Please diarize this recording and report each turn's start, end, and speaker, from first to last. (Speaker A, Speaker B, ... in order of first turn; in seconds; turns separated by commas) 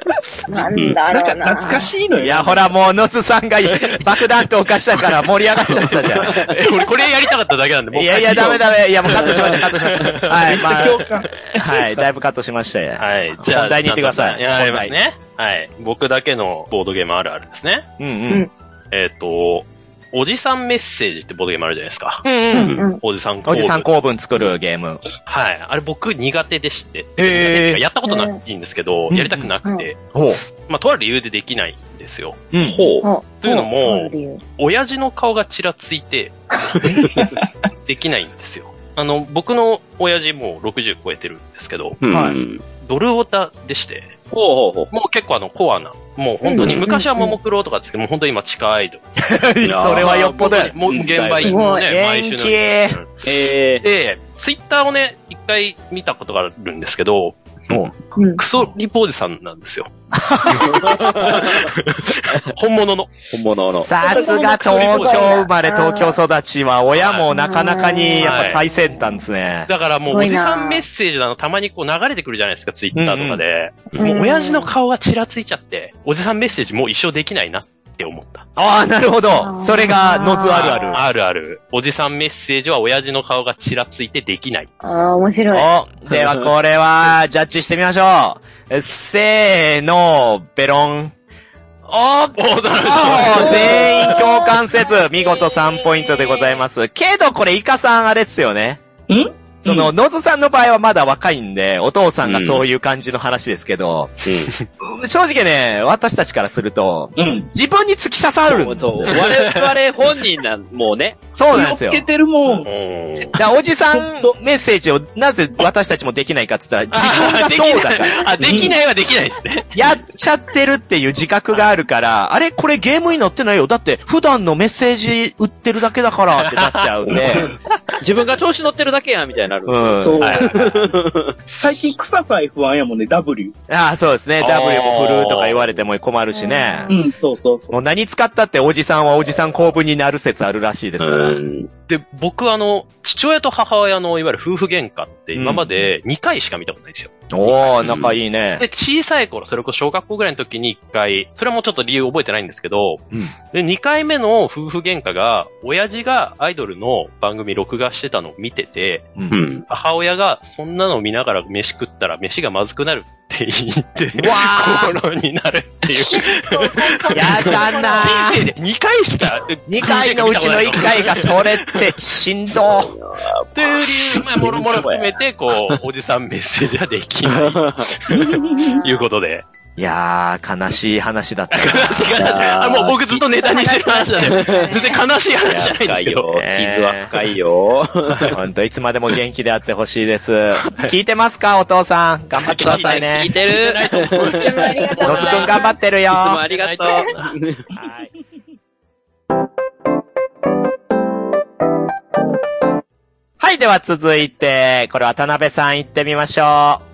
Speaker A: 0.5-1.9, Speaker B: 0.8-1.0, Speaker C: 1.1-2.7, Speaker D: 2.2-6.5, Speaker E: 5.6-10.6, Speaker B: 6.2-6.6, Speaker D: 7.9-14.9, Speaker C: 10.4-11.9, Speaker E: 13.0-17.9, Speaker D: 18.0-18.5, Speaker E: 18.9-22.4, Speaker D: 22.2-22.7, Speaker A: 22.5-23.0, Speaker B: 22.6-22.9, Speaker E: 23.0-23.9, Speaker D: 23.5-25.0, Speaker E: 25.3-30.1, Speaker D: 27.2-27.8, Speaker A: 28.1-28.4, Speaker D: 29.1-29.5, Speaker D: 30.1-30.4, Speaker E: 30.6-32.5, Speaker D: 32.5-32.8, Speaker B: 32.6-33.1, Speaker A: 33.0-34.4, Speaker E: 33.4-36.5, Speaker B: 36.7-37.3, Speaker E: 37.7-42.0, Speaker B: 42.0-42.6, Speaker D: 42.1-42.4, Speaker E: 42.8-44.2, Speaker B: 44.3-44.9, Speaker E: 44.9-49.0, Speaker A: 46.5-47.4, Speaker B: 46.6-46.9, Speaker D: 49.2-53.0, Speaker B: 49.6-50.1, Speaker E: 50.0-57.8, Speaker B: 50.9-51.5, Speaker A: 51.4-51.9, Speaker B: 53.2-53.9, Speaker A: 58.2-58.4, Speaker E: 58.4-59.9, Speaker D: 60.1-61.4, Speaker B: 60.5-61.7, Speaker E: 60.7-63.2, Speaker B: 63.3-63.9, Speaker D: 63.7-69.7, Speaker A: 64.0-66.2, Speaker E: 64.3-65.4, Speaker E: 66.9-67.3, Speaker A: 67.3-69.0, Speaker E: 68.2-68.6, Speaker E: 69.7-78.5, Speaker A: 70.1-70.9, Speaker D: 72.9-73.4, Speaker A: 74.0-74.7, Speaker D: 78.6-81.0, Speaker A: 79.3-81.0, Speaker E: 80.5-84.7, Speaker A: 84.8-85.7, Speaker D: 85.5-91.1, Speaker B: 86.1-86.5, Speaker D: 91.9-98.8, Speaker E: 92.4-93.9, Speaker A: 93.3-96.6, Speaker C: 99.1-99.9, Speaker D: 99.6-104.2, Speaker B: 102.2-102.6, Speaker B: 104.2-104.5, Speaker D: 104.7-109.2, Speaker C: 107.2-107.5, Speaker B: 108.5-111.3, Speaker E: 109.0-109.8, Speaker D: 111.3-112.1, Speaker C: 111.5-112.7, Speaker E: 112.5-113.4, Speaker D: 113.3-118.8, Speaker C: 113.9-114.3, Speaker E: 116.9-120.0, Speaker C: 118.4-118.8, Speaker D: 119.8-127.5, Speaker E: 126.4-126.9, Speaker B: 127.1-131.4, Speaker D: 129.7-130.2, Speaker C: 129.9-130.8, Speaker E: 130.2-130.6, Speaker C: 131.5-133.5, Speaker D: 133.7-136.9, Speaker E: 134.4-135.7, Speaker A: 136.3-137.0, Speaker C: 136.9-137.8, Speaker D: 137.7-141.4, Speaker B: 141.0-141.7, Speaker E: 141.9-147.7, Speaker D: 145.3-145.9, Speaker D: 147.3-148.7, Speaker B: 147.8-148.2, Speaker E: 148.6-159.1, Speaker B: 159.3-159.7, Speaker E: 159.7-171.9, Speaker D: 164.1-165.0, Speaker A: 166.1-168.2, Speaker D: 167.1-168.5, Speaker D: 169.7-172.9, Speaker B: 172.5-175.8, Speaker E: 173.6-179.4, Speaker B: 177.3-177.9, Speaker C: 178.1-178.7, Speaker A: 178.4-179.0, Speaker D: 179.8-182.5, Speaker E: 181.5-186.3, Speaker B: 182.2-183.2, Speaker A: 183.3-185.0, Speaker B: 184.3-184.7, Speaker B: 185.4-188.4, Speaker D: 186.4-187.2, Speaker D: 188.3-193.3, Speaker E: 192.4-195.7, Speaker B: 192.4-195.3, Speaker A: 194.3-195.8, Speaker D: 195.0-196.4, Speaker B: 196.1-197.7, Speaker E: 196.5-197.3, Speaker D: 197.7-198.1, Speaker D: 203.4-206.8